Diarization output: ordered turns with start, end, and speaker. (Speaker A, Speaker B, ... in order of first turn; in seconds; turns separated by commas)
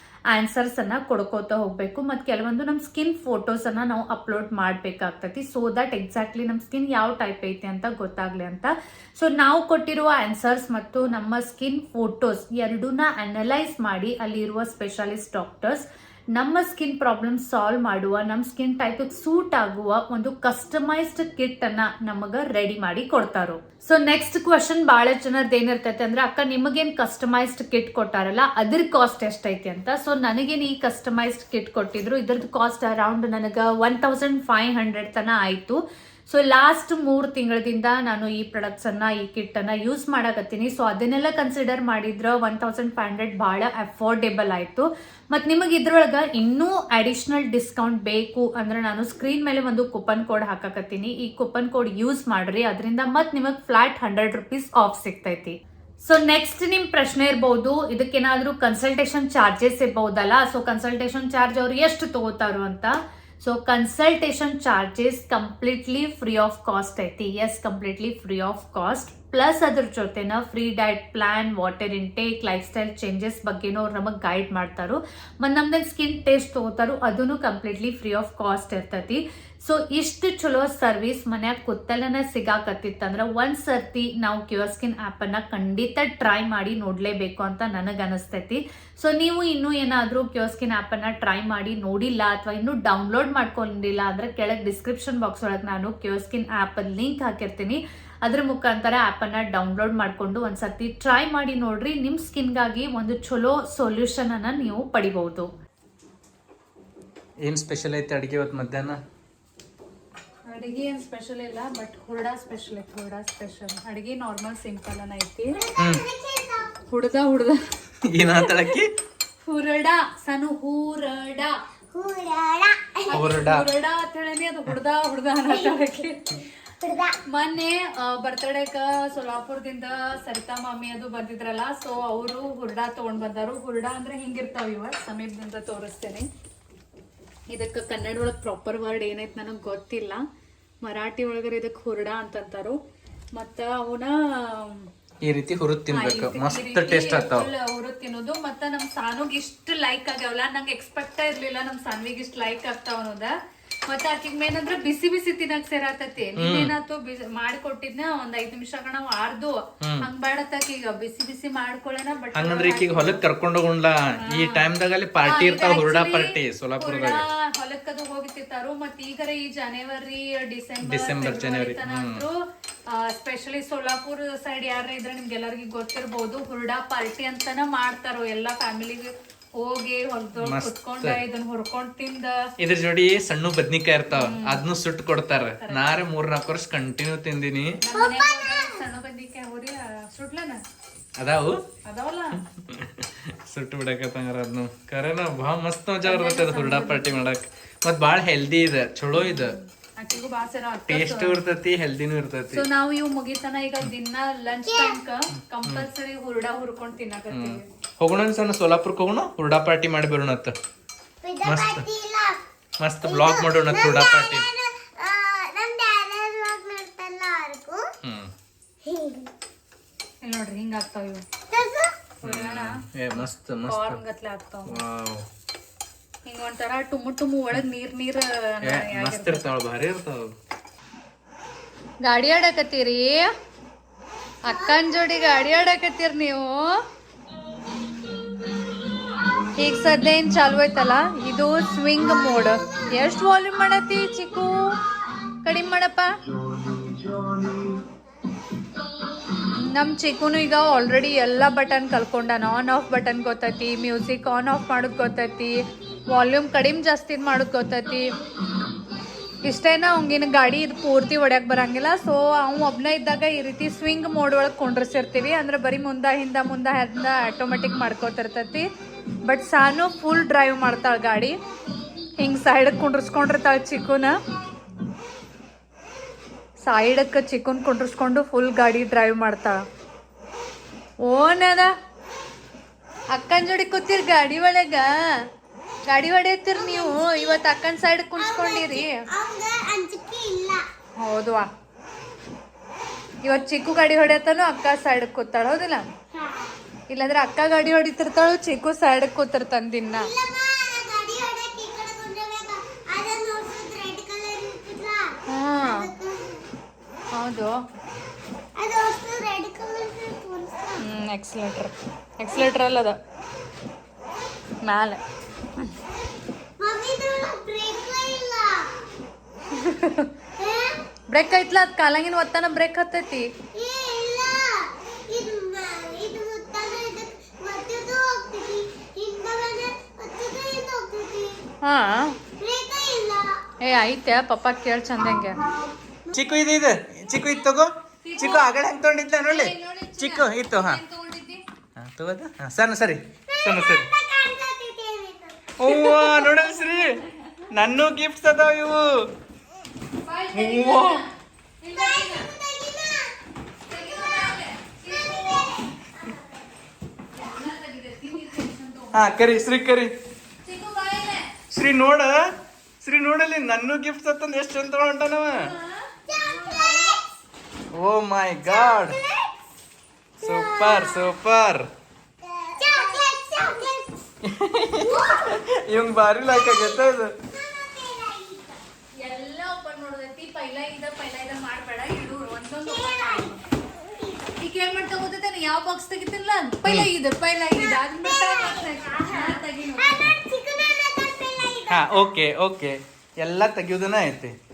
Speaker A: 0.3-105.5, Speaker B: 107.4-109.0, Speaker A: 110.5-115.6, Speaker C: 115.5-116.8, Speaker B: 115.8-116.0, Speaker A: 116.9-117.6, Speaker B: 118.0-118.9, Speaker A: 118.3-118.7, Speaker A: 119.5-121.6, Speaker C: 121.9-123.1, Speaker A: 123.1-126.4, Speaker B: 123.1-123.7, Speaker C: 125.5-125.8, Speaker C: 126.8-127.2, Speaker A: 127.3-136.3, Speaker A: 137.5-140.2, Speaker A: 140.8-142.8, Speaker A: 143.3-144.9, Speaker B: 145.2-147.5, Speaker A: 145.9-153.3, Speaker A: 153.9-163.2, Speaker B: 156.4-156.7, Speaker B: 159.8-160.1, Speaker B: 162.3-167.2, Speaker A: 164.2-164.7, Speaker A: 165.2-182.5, Speaker B: 170.8-172.2, Speaker B: 180.4-181.2, Speaker B: 182.6-187.8, Speaker A: 184.1-184.7, Speaker A: 185.5-186.0, Speaker A: 187.8-190.6, Speaker C: 187.9-188.8, Speaker B: 191.2-191.6, Speaker A: 191.8-192.4, Speaker B: 192.6-199.6, Speaker A: 196.1-197.2, Speaker A: 199.1-201.4, Speaker B: 200.9-202.7, Speaker A: 202.5-207.7, Speaker C: 204.7-205.0, Speaker B: 207.3-210.6, Speaker C: 211.2-212.4, Speaker B: 211.4-211.8, Speaker B: 212.8-214.5, Speaker C: 213.0-217.9, Speaker B: 218.0-218.3, Speaker C: 218.8-219.3, Speaker A: 220.2-221.2, Speaker C: 221.5-222.0, Speaker A: 222.2-222.8, Speaker B: 222.2-224.0, Speaker A: 223.7-224.8, Speaker B: 224.7-225.3, Speaker A: 226.3-229.4, Speaker B: 228.6-230.3, Speaker A: 232.0-233.3, Speaker A: 234.4-236.8, Speaker C: 234.5-235.5, Speaker C: 237.4-239.5, Speaker A: 239.6-244.8, Speaker C: 242.0-242.8, Speaker A: 245.4-246.2, Speaker A: 249.5-258.1, Speaker A: 259.4-268.7, Speaker A: 269.2-271.4, Speaker A: 272.2-274.2, Speaker A: 276.6-279.6, Speaker A: 281.1-281.7, Speaker A: 283.1-285.2, Speaker A: 285.9-289.0, Speaker C: 286.6-287.5, Speaker C: 288.2-290.6, Speaker A: 291.0-291.5, Speaker A: 293.2-295.9, Speaker C: 296.1-296.6, Speaker A: 296.9-300.1, Speaker C: 300.0-306.4, Speaker A: 305.3-305.9, Speaker A: 307.1-307.6, Speaker C: 308.6-310.8, Speaker A: 310.8-313.0, Speaker A: 314.6-315.0, Speaker C: 316.6-318.7, Speaker A: 319.5-320.1, Speaker C: 320.4-320.9, Speaker A: 321.1-323.3, Speaker C: 323.5-331.4, Speaker A: 331.6-332.2, Speaker C: 332.4-333.4, Speaker A: 333.6-335.4, Speaker C: 335.2-336.3, Speaker B: 336.1-340.8, Speaker A: 338.0-338.5, Speaker A: 339.2-341.4, Speaker B: 341.8-343.9, Speaker C: 343.3-346.2, Speaker B: 345.6-349.1, Speaker A: 345.9-347.4, Speaker A: 350.1-351.1, Speaker B: 350.3-351.0, Speaker A: 351.6-352.3, Speaker C: 351.7-353.1, Speaker A: 353.7-355.5, Speaker C: 353.7-356.5, Speaker A: 357.1-359.4, Speaker B: 358.9-359.9, Speaker A: 360.4-361.4, Speaker B: 361.5-365.5, Speaker A: 365.3-366.9, Speaker C: 366.1-367.1, Speaker B: 367.7-369.0, Speaker C: 368.4-369.3, Speaker C: 370.2-371.2, Speaker B: 370.2-371.7, Speaker C: 372.2-374.0, Speaker B: 374.2-377.1, Speaker C: 374.8-375.6, Speaker C: 376.1-378.6, Speaker A: 379.0-383.4, Speaker C: 382.6-384.3, Speaker A: 384.4-390.2, Speaker C: 387.5-392.1, Speaker B: 391.7-394.4